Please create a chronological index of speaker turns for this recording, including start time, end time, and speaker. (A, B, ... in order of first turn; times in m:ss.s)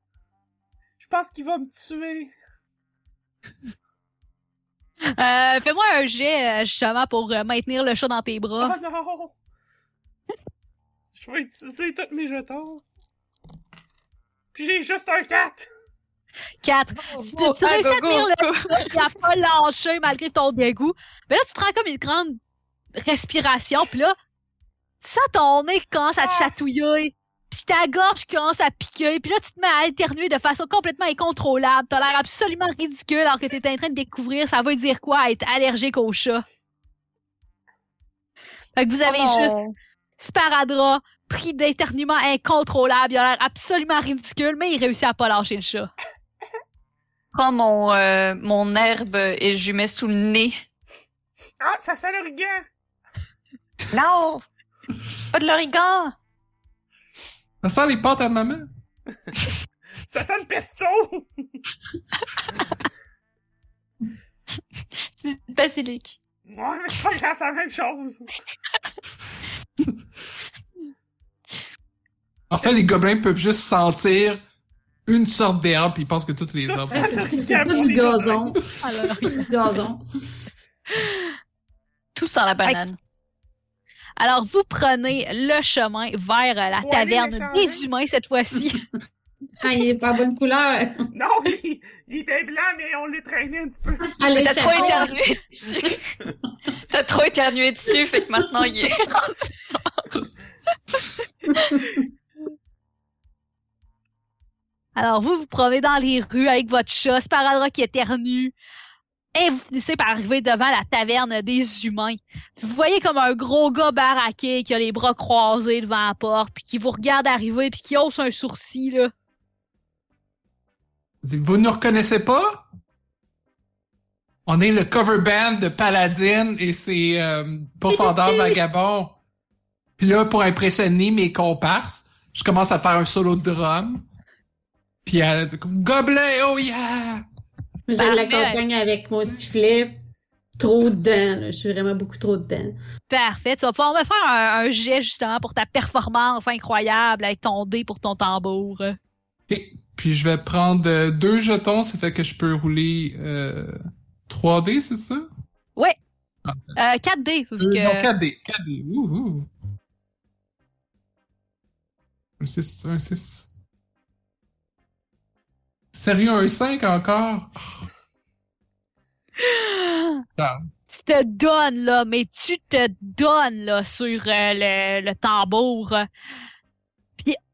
0:01.0-0:02.3 A
0:05.2-0:08.8 B
0:08.6-0:09.3 A
0:11.1-0:12.8 A
0:14.5-0:15.6 A
0:16.6-0:22.4 B
0:17.1-0:18.9 C
0:23.0-0:24.1 B
0:25.0-0:36.4 B
0:26.2-0:26.5 A
0:38.8-0:39.6 B
0:39.0-0:39.7 C
0:40.2-0:45.9 B
0:47.3-0:50.6 C
0:51.6-0:52.6 A
0:53.9-0:54.4 C
0:55.3-0:56.1 C
0:57.6-0:58.7 D
1:00.1-1:01.4 A
1:05.2-1:06.2 C
1:06.4-1:08.3 A
1:12.5-1:14.4 D
1:15.0-1:17.5 D
1:16.6-1:18.6 A
1:16.9-1:18.6 E
1:18.8-1:19.4 B
1:19.3-1:20.0 E
1:22.1-1:23.0 C
1:24.2-1:28.8 B
1:26.8-1:27.8 A
1:29.6-1:31.1 E
1:31.1-1:34.1 A
1:34.1-1:35.2 E
1:34.4-1:36.0 C
1:36.9-1:40.1 C
1:44.9-1:48.5 B
1:49.3-1:59.1 B
2:01.2-2:02.6 D
2:04.4-2:09.2 D
2:07.9-2:08.5 B
2:10.0-2:14.0 D
2:15.0-2:17.2 D
2:17.9-2:20.0 E
2:18.0-2:18.6 B
2:20.6-2:22.7 E
2:23.1-2:29.0 B
2:29.5-2:35.3 D
2:36.4-2:36.7 D
2:36.8-2:38.1 B
2:37.6-2:39.5 D
2:42.4-2:43.5 D
2:45.9-2:47.8 D
2:49.4-2:50.2 B
2:50.4-2:50.6 D
2:50.9-2:56.0 B